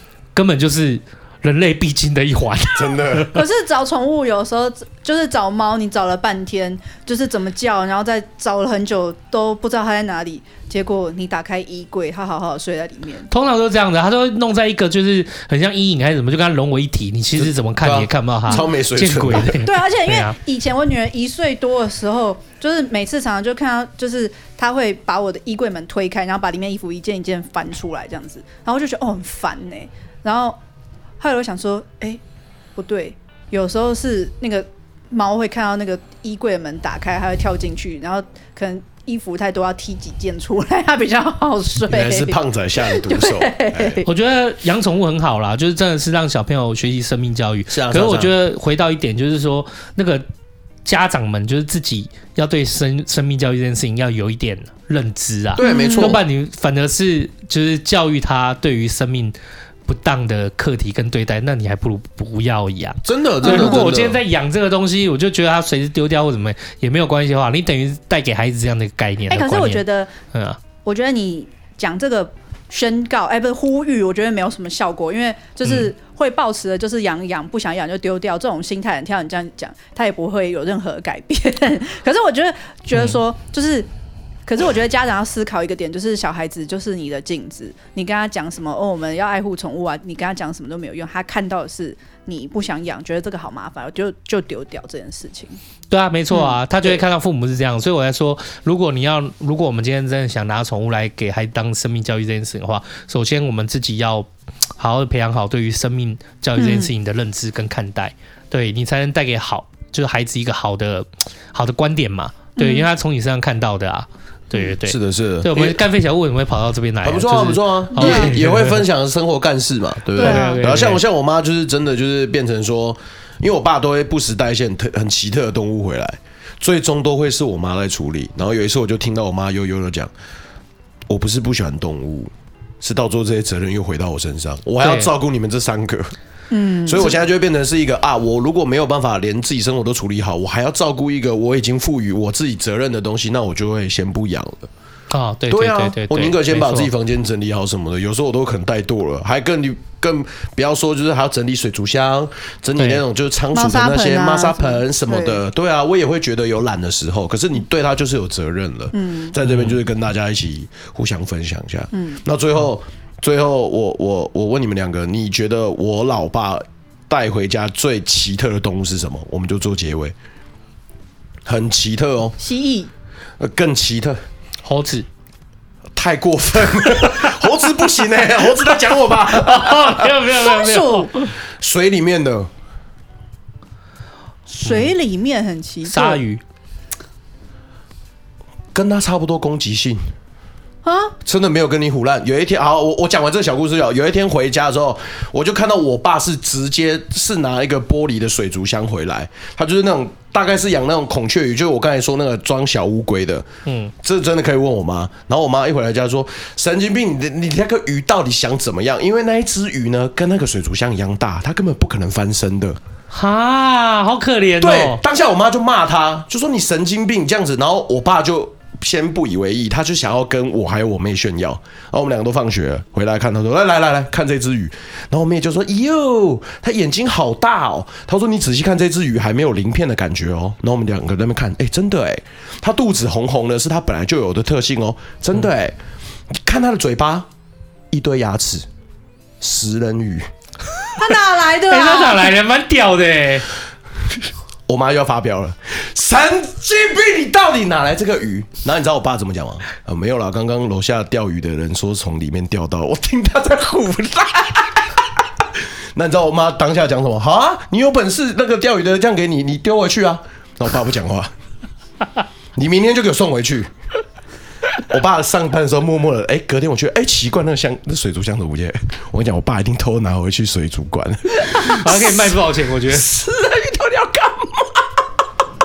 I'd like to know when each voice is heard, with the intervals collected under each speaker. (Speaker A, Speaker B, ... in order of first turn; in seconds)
Speaker A: 0.3-3.4, 13.3-20.4, 44.0-50.2, 50.9-70.6, 75.6-75.9, 82.9-83.2, 95.9-118.8, 120.1-121.0, 134.8-135.1, 145.1-146.9, 152.8-153.0, 159.4-159.8, 174.6-175.1, 179.3-181.3, 184.6-184.9, 185.8-186.4, 203.7-203.9, 213.1-215.0, 241.7-243.5, 271.5-273.1
Speaker B: 2.8-3.3, 17.4-19.5, 41.9-44.0, 47.7-48.4, 55.6-56.2, 63.0-64.2, 114.8-115.8, 117.0-130.1, 131.1-136.1, 136.8-144.7, 145.5-170.1, 171.5-172.4, 173.4-174.2, 176.0-180.1, 181.5-182.5, 188.7-190.0, 191.2-203.5, 204.0-212.8, 214.6-235.8, 236.3-237.3, 237.9-238.7, 239.4-240.2, 244.7-255.0, 255.9-261.3, 262.6-263.7, 264.8-274.9
Speaker C: 3.3-13.3, 19.4-30.6, 31.2-32.2, 32.8-44.0, 55.6-56.2, 63.4-63.9, 69.3-70.1, 70.8-83.9, 84.5-95.6, 96.3-97.0, 106.6-106.9, 112.6-112.9, 118.0-118.3, 120.1-120.8, 136.5-137.2, 153.5-155.4, 158.9-159.3, 161.9-162.2, 172.4-172.9, 180.4-181.1, 184.5-186.2, 190.8-191.1, 241.0-242.3